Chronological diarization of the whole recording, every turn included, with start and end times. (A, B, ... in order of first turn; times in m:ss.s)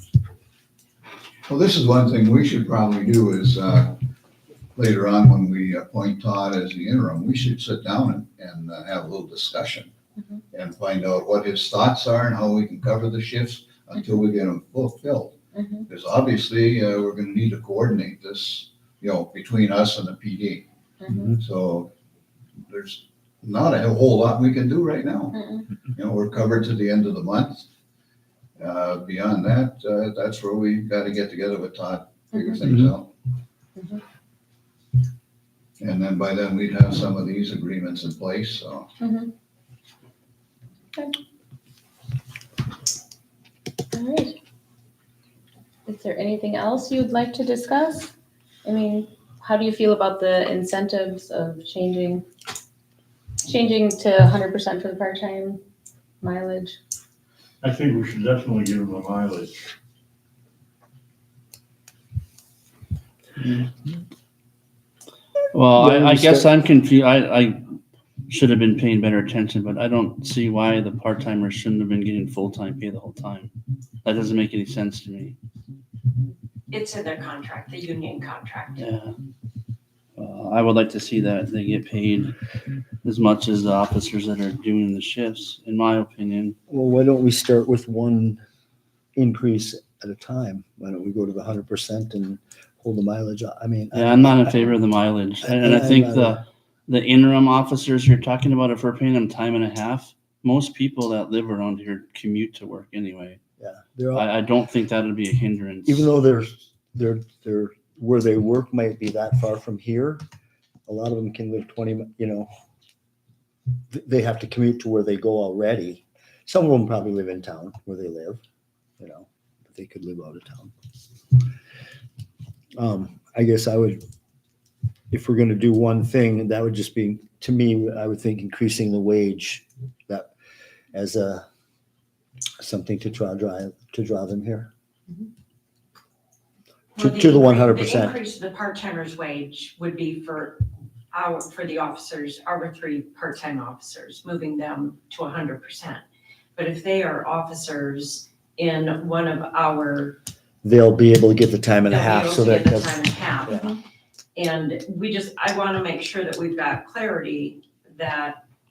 0:01.5-0:04.0 A
0:04.8-0:09.9 A
0:10.5-0:15.4 A
0:15.5-0:15.9 B
0:15.9-0:20.7 A
0:21.0-0:21.4 B
0:21.4-0:21.9 A
0:22.7-0:27.7 A
0:25.3-0:25.7 B
0:28.6-0:33.1 A
0:33.8-0:34.0 B
0:35.8-0:38.9 A
0:39.0-0:39.3 B
0:43.9-0:44.4 B
0:45.9-0:52.3 B
0:53.4-0:55.6 B
0:56.2-0:56.8 B
0:57.6-0:59.6 C
1:05.5-1:07.6 D
1:05.8-1:06.5 E
1:08.3-1:13.5 D
1:14.0-1:15.4 D
1:16.7-1:18.8 F
1:18.8-1:19.2 D
1:20.2-1:22.3 D
1:23.0-1:26.6 D
1:26.7-1:28.4 E
1:29.2-1:34.8 E
1:33.9-1:43.4 D
1:35.4-1:36.4 E
1:43.6-1:44.3 E
1:44.1-1:46.1 D
1:45.9-1:50.2 E
1:50.9-1:52.5 E
1:53.9-1:58.4 E
1:59.0-2:00.7 E
2:02.8-2:04.0 E
2:05.1-2:10.3 E
2:10.9-2:11.4 E
2:12.6-2:14.7 E
2:17.0-2:26.0 F
2:17.0-2:18.2 E
2:26.6-2:30.2 F
2:30.6-2:33.7 E
2:31.9-2:33.7 F
2:34.4-2:38.4 F